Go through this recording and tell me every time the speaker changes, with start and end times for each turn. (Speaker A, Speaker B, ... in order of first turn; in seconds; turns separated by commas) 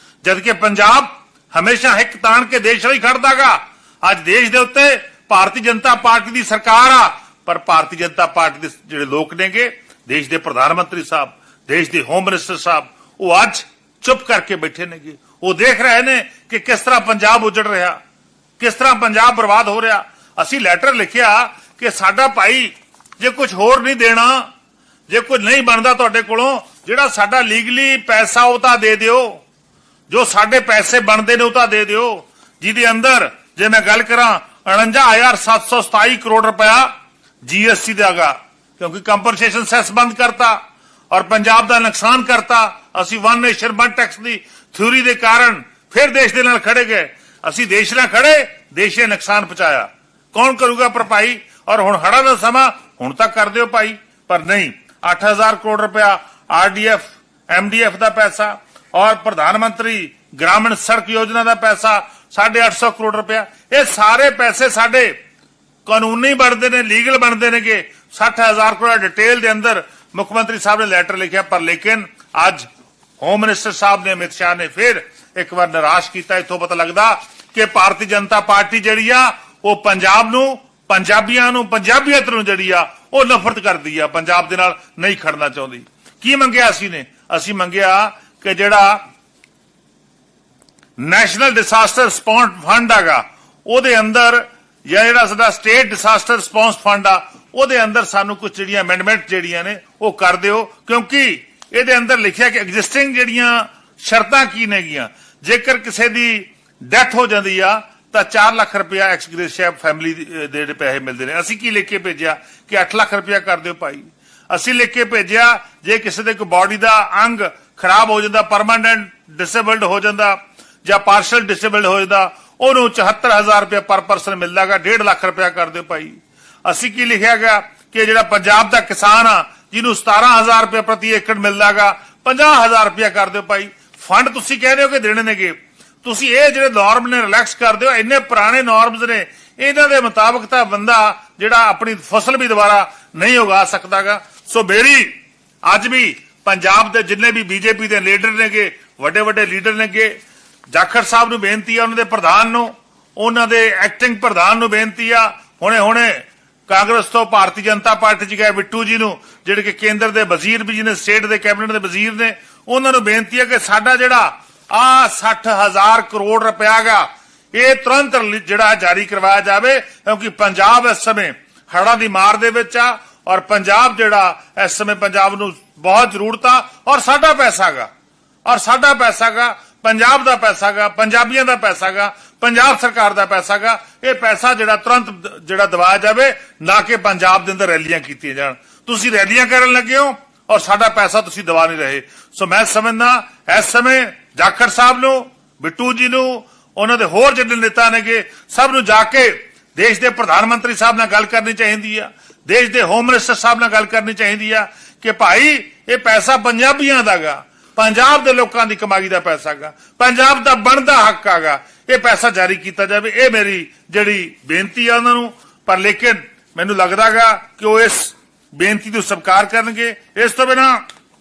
Speaker A: 0.2-18.0, Speaker A: 18.6-24.5, Speaker A: 25.1-29.4, Speaker A: 30.1-36.9, Speaker A: 37.4-40.6, Speaker A: 41.1-65.2, Speaker A: 65.9-72.7, Speaker A: 73.2-89.0, Speaker A: 91.0-150.2, Speaker A: 150.7-177.9, Speaker A: 178.5-220.8